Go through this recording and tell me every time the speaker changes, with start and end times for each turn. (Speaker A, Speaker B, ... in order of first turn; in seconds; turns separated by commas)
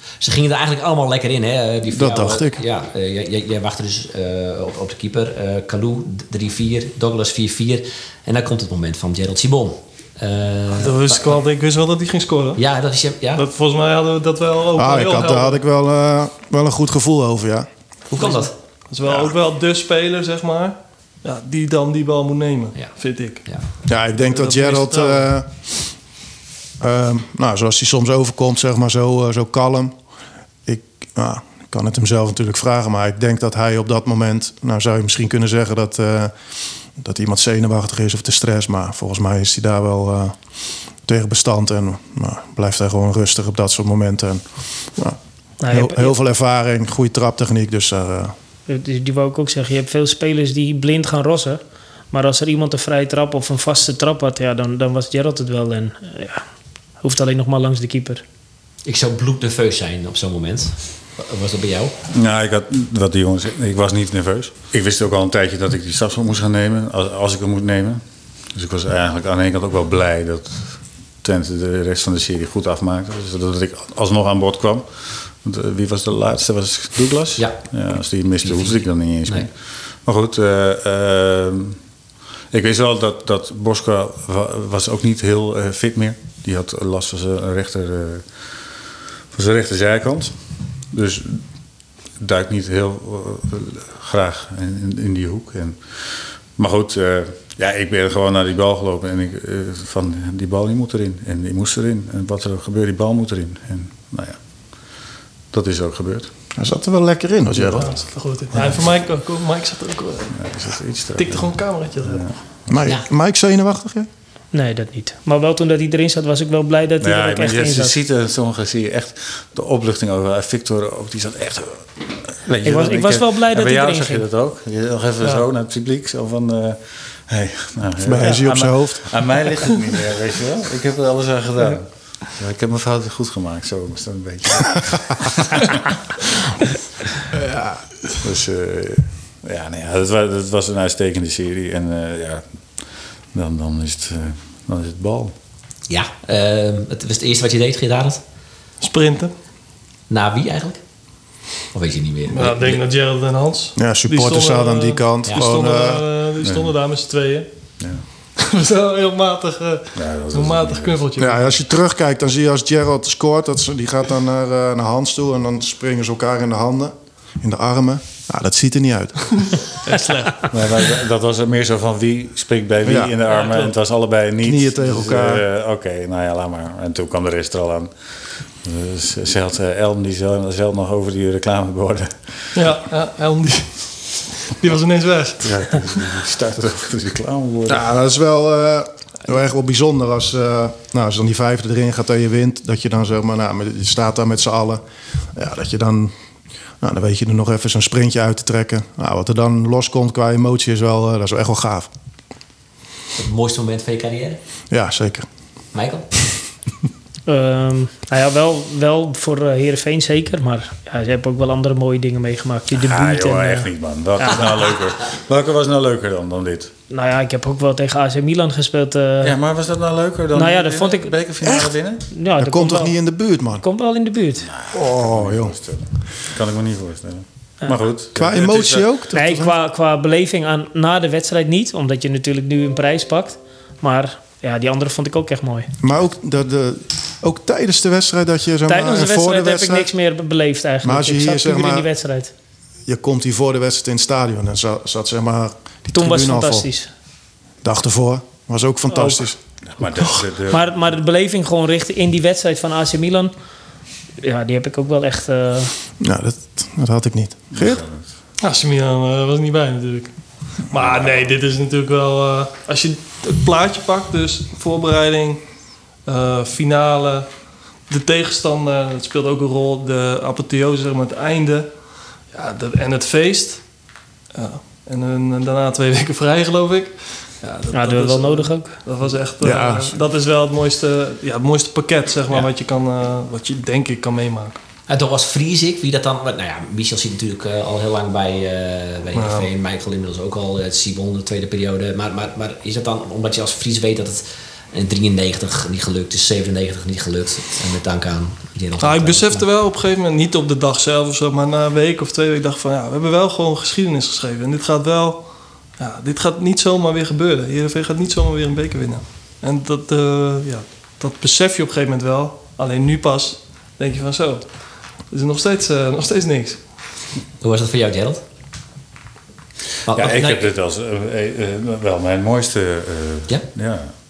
Speaker A: 0.2-11.4, Speaker B: 1.9-2.6, Speaker C: 10.8-12.6, Speaker A: 12.6-13.4, Speaker C: 13.4-15.6, Speaker B: 14.8-17.7, Speaker A: 18.1-18.5, Speaker C: 18.2-23.5, Speaker A: 22.8-23.7, Speaker B: 23.9-25.5, Speaker C: 24.3-25.3, Speaker B: 26.8-30.0, Speaker B: 30.7-36.3, Speaker B: 37.0-40.4, Speaker B: 41.0-48.3, Speaker D: 45.6-46.2, Speaker D: 48.7-51.6, Speaker D: 52.1-56.4, Speaker D: 57.0-58.2, Speaker A: 58.9-62.0, Speaker E: 62.1-68.0, Speaker E: 68.5-81.8, Speaker A: 77.4-77.7, Speaker A: 78.4-79.5, Speaker E: 82.5-88.5, Speaker E: 89.3-90.3, Speaker E: 90.9-91.4, Speaker E: 92.2-104.4, Speaker E: 105.5-106.3, Speaker B: 106.6-107.9, Speaker E: 107.5-108.9, Speaker C: 107.8-110.4, Speaker E: 110.3-112.9, Speaker C: 111.2-112.2, Speaker B: 112.7-114.1, Speaker D: 114.5-118.0, Speaker E: 117.0-135.9, Speaker D: 122.6-124.3, Speaker B: 128.0-129.1, Speaker B: 137.3-137.8, Speaker E: 138.2-145.3, Speaker A: 145.9-148.2, Speaker C: 148.8-149.3, Speaker A: 150.1-150.8, Speaker A: 151.7-152.8, Speaker C: 152.3-157.5, Speaker B: 153.8-156.1, Speaker E: 156.4-156.8, Speaker E: 157.8-158.0, Speaker C: 158.4-161.6, Speaker E: 159.9-161.1, Speaker B: 161.2-169.5, Speaker C: 169.8-170.8, Speaker E: 170.5-177.9, Speaker B: 172.8-173.1, Speaker C: 173.3-173.8, Speaker B: 174.4-175.4, Speaker E: 178.6-182.7, Speaker C: 182.6-185.8, Speaker E: 185.4-187.8, Speaker B: 187.7-194.8, Speaker B: 195.3-196.1, Speaker B: 196.8-201.9, Speaker A: 203.2-204.4, Speaker B: 204.7-205.3, Speaker A: 205.7-206.1, Speaker D: 207.3-214.4, Speaker E: 212.7-216.7, Speaker D: 216.9-219.4, Speaker E: 219.2-222.1, Speaker D: 220.3-221.2, Speaker D: 222.1-223.0, Speaker B: 222.4-223.6, Speaker D: 223.6-224.5, Speaker E: 224.4-228.9, Speaker B: 224.7-225.6, Speaker B: 228.2-229.5, Speaker D: 229.1-235.7, Speaker B: 235.8-239.9, Speaker D: 238.7-242.3, Speaker B: 240.8-241.9, Speaker B: 242.9-246.7, Speaker D: 245.9-246.9, Speaker B: 247.6-249.4, Speaker D: 248.9-249.3, Speaker E: 249.7-250.8, Speaker D: 250.5-253.3, Speaker D: 254.2-255.8, Speaker B: 256.0-257.8, Speaker E: 257.5-258.1, Speaker C: 258.4-265.5, Speaker E: 260.7-261.3, Speaker C: 266.0-284.6, Speaker D: 277.7-278.8, Speaker B: 279.4-280.0, Speaker A: 284.9-299.4, Speaker C: 289.1-289.5, Speaker C: 298.8-316.7, Speaker A: 317.4-318.2, Speaker A: 319.9-320.5, Speaker E: 319.9-323.9